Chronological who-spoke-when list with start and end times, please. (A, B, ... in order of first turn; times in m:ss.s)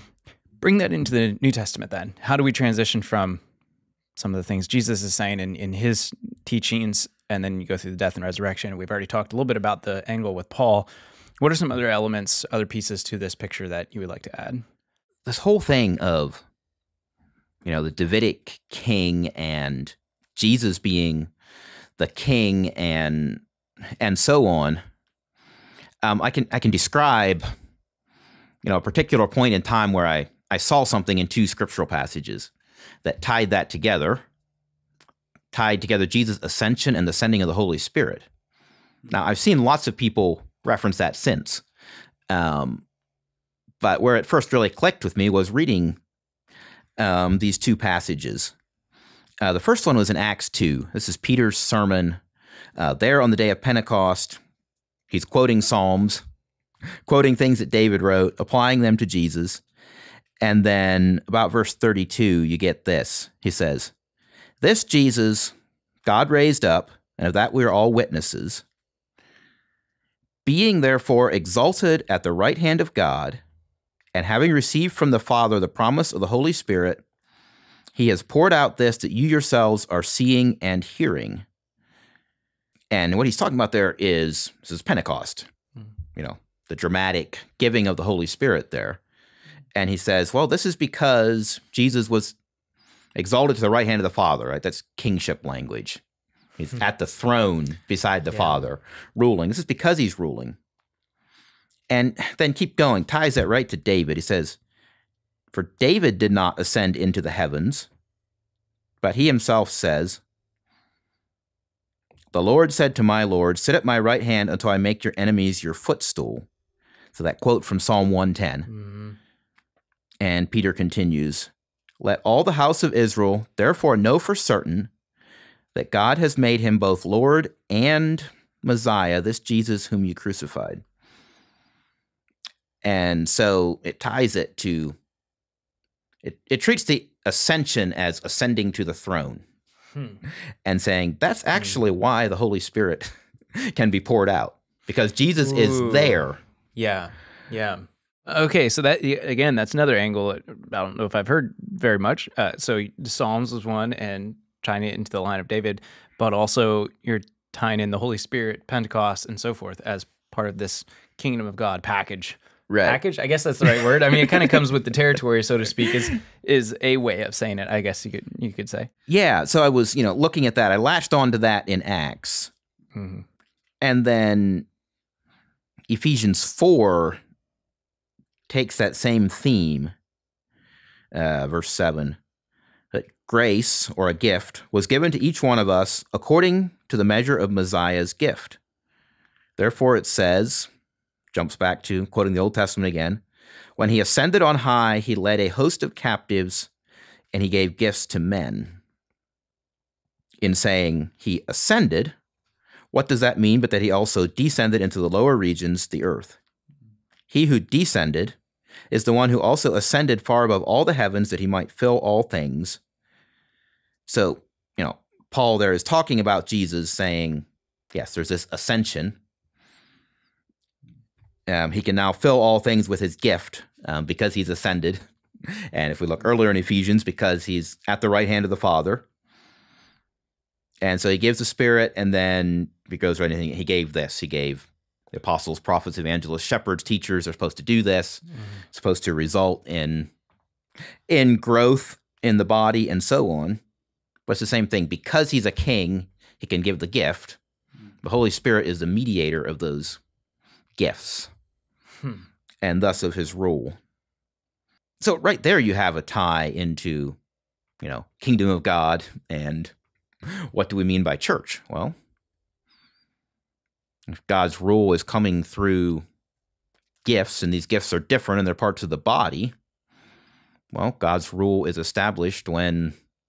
0:00.6-0:03.4 A
0:04.2-0:10.9 A
0:11.4-0:14.6 A
0:15.2-0:16.4 B
0:17.6-0:21.3 B
0:22.0-0:23.4 B
0:24.0-0:24.8 B
0:26.0-0:27.4 B
0:28.6-0:32.5 B
0:33.0-0:34.2 B
0:35.5-0:38.3 B
0:39.1-0:41.6 B
0:42.3-0:42.8 B
0:43.8-0:46.0 B
0:47.0-0:48.5 B
0:49.4-0:52.2 B
0:52.8-0:54.4 B
0:55.1-0:56.2 B
0:57.0-0:59.6 B
1:00.4-1:03.9 B
1:04.6-1:05.5 B
1:06.0-1:08.6 B
1:10.4-1:13.4 B
1:14.1-1:17.0 B
1:17.9-1:21.4 B
1:22.9-1:25.5 B
1:26.2-1:29.0 B
1:29.7-1:32.3 B
1:33.1-1:36.0 B
1:36.6-1:40.6 B
1:38.3-1:38.6 A
1:41.9-1:44.6 B
1:45.5-1:47.9 B
1:49.0-1:50.2 B
1:52.3-1:56.5 B
1:57.1-1:58.7 B
1:58.7-1:59.2 A
2:00.2-2:04.9 B
2:05.7-2:10.8 B
2:12.8-2:15.0 B
2:16.2-2:19.4 B
2:19.9-2:20.2 A
2:20.6-2:26.4 B
2:21.5-2:21.8 A
2:25.4-2:26.2 A
2:26.7-2:48.9 A
2:42.7-2:43.0 B
2:49.1-2:52.5 B
2:52.9-2:53.2 A
2:53.8-2:54.6 B
2:55.9-2:57.2 B
2:58.5-2:59.9 B
3:01.1-3:02.2 B
3:02.9-3:08.6 B
3:09.6-3:10.7 B
3:11.3-3:13.2 B
3:13.8-3:16.7 B
3:17.3-3:18.8 B
3:20.4-3:22.1 B
3:22.9-3:26.4 B
3:27.3-3:28.4 B
3:28.9-3:32.8 B
3:34.0-3:39.2 B
3:41.5-3:49.0 B
3:50.8-4:00.1 B
4:01.1-4:03.6 B
4:04.3-4:07.4 B
4:08.0-4:10.0 B
4:10.8-4:11.3 B
4:12.6-4:13.8 B
4:15.0-4:17.2 B
4:17.8-4:19.7 B
4:20.2-4:21.9 B
4:24.1-4:26.0 B
4:27.0-4:29.5 B
4:30.7-4:32.9 B